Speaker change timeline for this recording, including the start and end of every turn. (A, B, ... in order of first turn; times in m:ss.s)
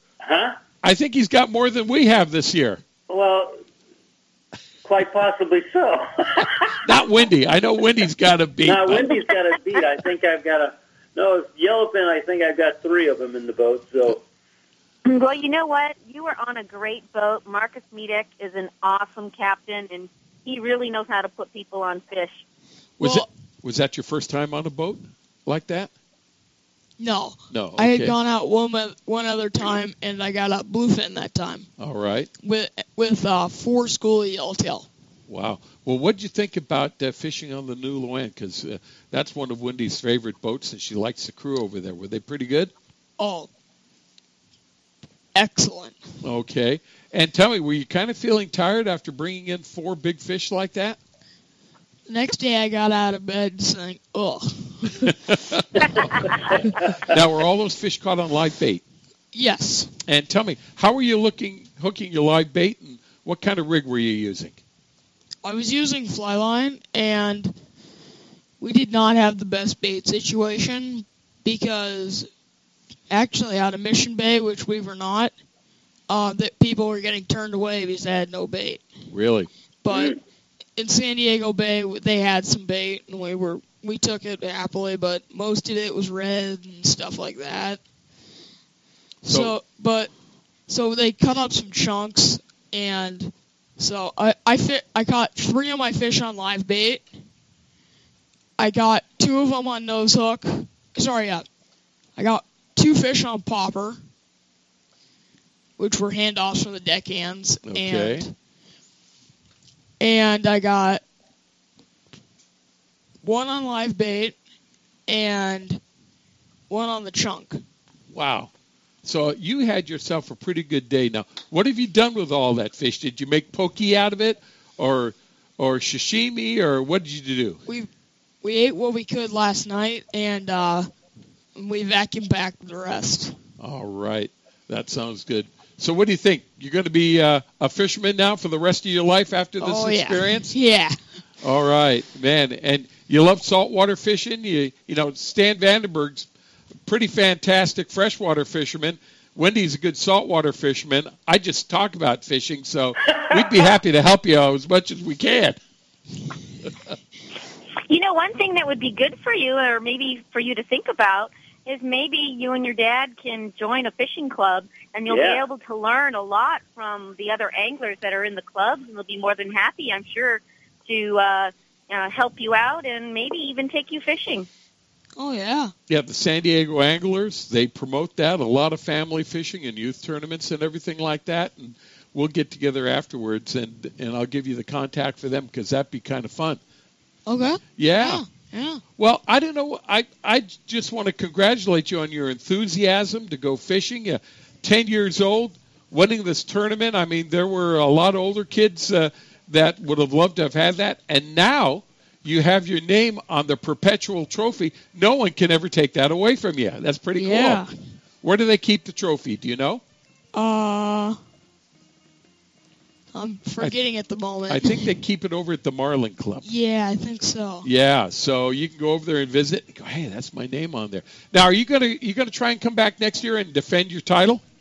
0:00.2-0:00.6 A
0:00.8-0:02.8 B
0:03.1-0:03.6 A
0:04.8-0:06.8 A
0:06.8-0:09.1 B
0:08.6-0:14.2 A
0:15.0-0:22.4 C
0:23.0-0:25.9 B
0:23.0-0:23.3 D
0:27.0-0:31.7 D
0:27.5-0:28.2 B
0:31.8-0:32.3 B
0:32.4-0:34.9 D
0:35.3-0:42.7 B
0:43.2-0:43.5 D
0:45.3-0:46.0 D
0:46.2-0:51.0 B
0:52.1-0:54.9 D
0:55.0-0:56.1 B
0:56.8-0:58.8 B
0:59.3-0:59.9 D
1:00.0-1:04.6 B
1:05.4-1:07.5 D
1:08.6-1:12.3 D
1:13.1-1:15.3 D
1:16.1-1:18.8 D
1:19.1-1:19.5 B
1:19.8-1:20.2 D
1:19.9-1:20.1 A
1:20.8-1:27.8 D
1:29.2-1:30.1 D
1:30.7-1:37.1 D
1:38.6-1:41.4 D
1:42.2-1:44.0 D
1:45.8-1:48.3 D
1:47.6-1:48.3 B
1:50.0-1:51.0 D
1:53.2-1:54.4 D
1:55.1-1:55.8 D
1:56.7-1:57.6 D
1:58.1-1:58.5 B
1:59.0-2:07.6 B
2:08.4-2:10.9 D
2:11.6-2:13.4 D
2:13.6-2:20.5 B
2:19.6-2:21.0 D
2:21.4-2:26.3 B
2:26.9-2:35.6 B
2:37.9-2:54.5 C
2:45.1-2:45.4 A
2:55.2-2:55.7 D
2:55.9-3:06.6 B
3:07.2-3:08.8 D
3:07.8-3:08.2 B
3:09.0-3:27.6 B
3:27.2-3:27.7 D
3:28.2-3:29.8 B
3:30.3-3:31.2 D
3:33.1-3:34.9 D
3:34.5-3:36.4 B
3:36.4-3:37.7 D
3:37.6-3:44.4 B